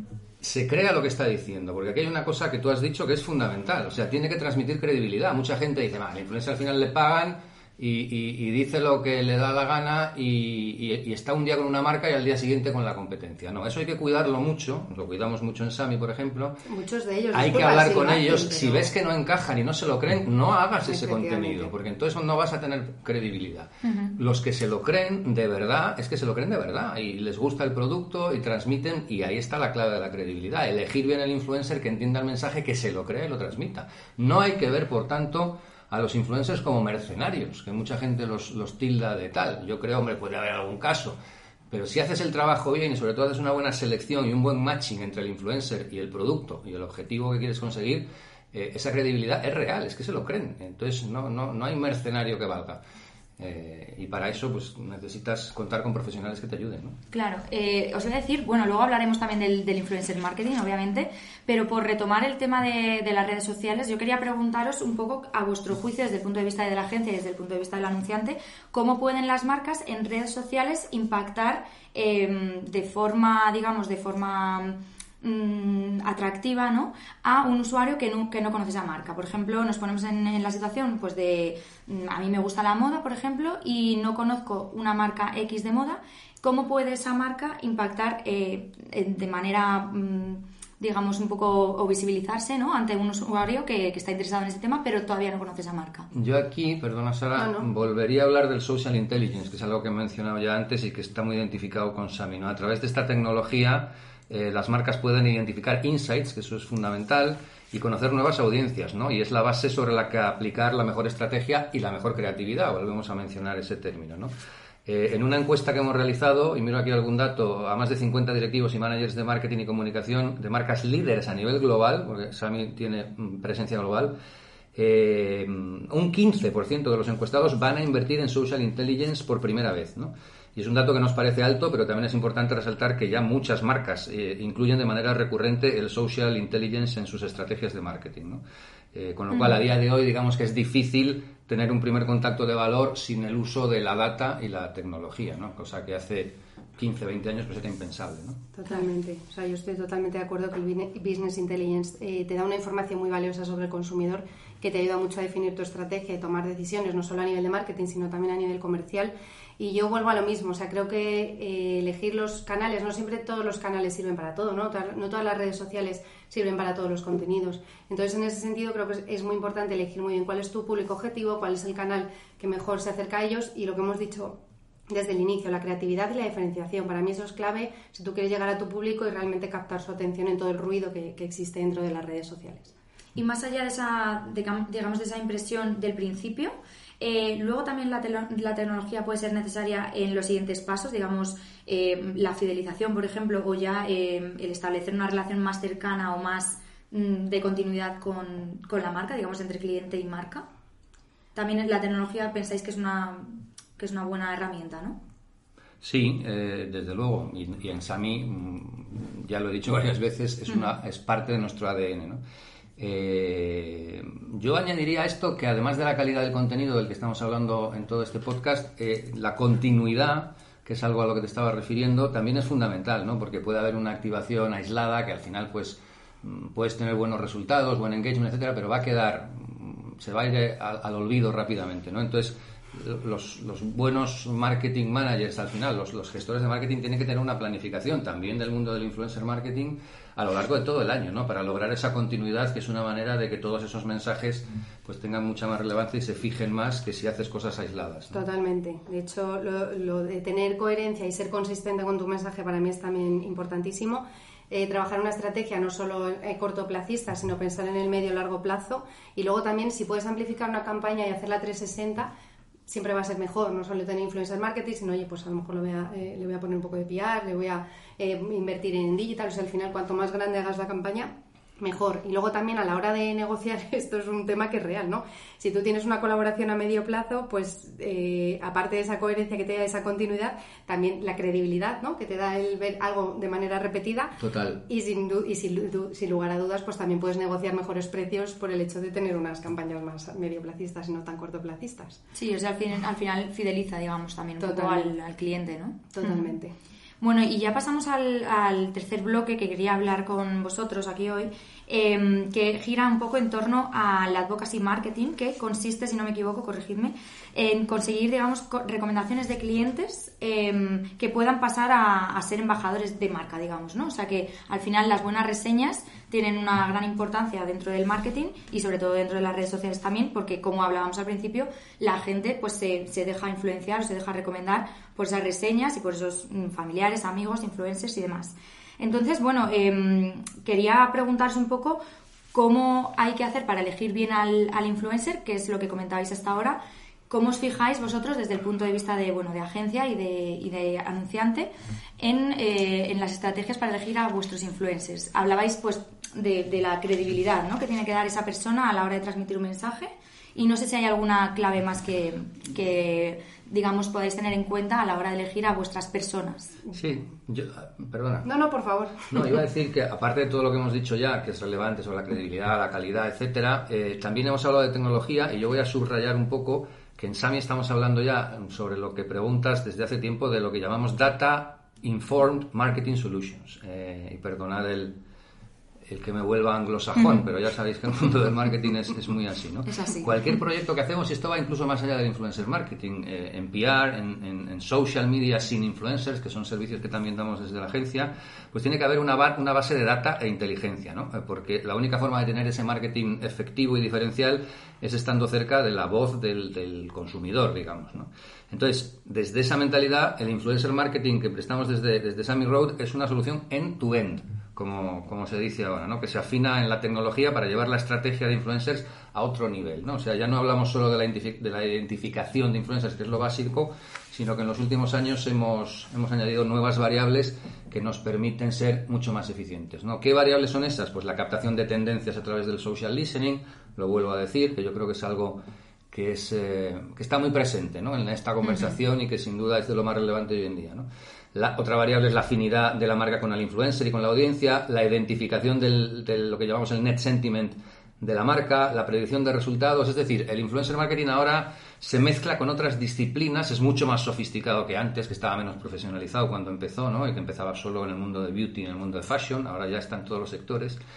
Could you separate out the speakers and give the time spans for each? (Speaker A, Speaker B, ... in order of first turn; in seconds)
Speaker A: 0.4-16.6, 17.3-41.2, 41.7-52.8, 53.4-57.0, 96.1-114.3, 114.8-124.1, 124.7-138.4, 138.9-148.4, 205.8-212.2, 212.8-248.2, 284.2-284.6, 356.7-358.3, 359.1-374.9, 375.9-450.8
Speaker B: 16.6-18.9, 20.8-21.7, 97.3-97.7, 148.5-174.4, 174.9-182.7, 248.1-262.1, 262.7-284.1, 284.7-292.0, 294.4-294.9, 295.9-296.5, 358.2-359.2
Speaker C: 23.8-24.1, 57.1-96.1, 183.2-200.4, 201.3-205.0, 292.1-296.3, 297.0-331.8, 332.3-356.6, 379.7-380.1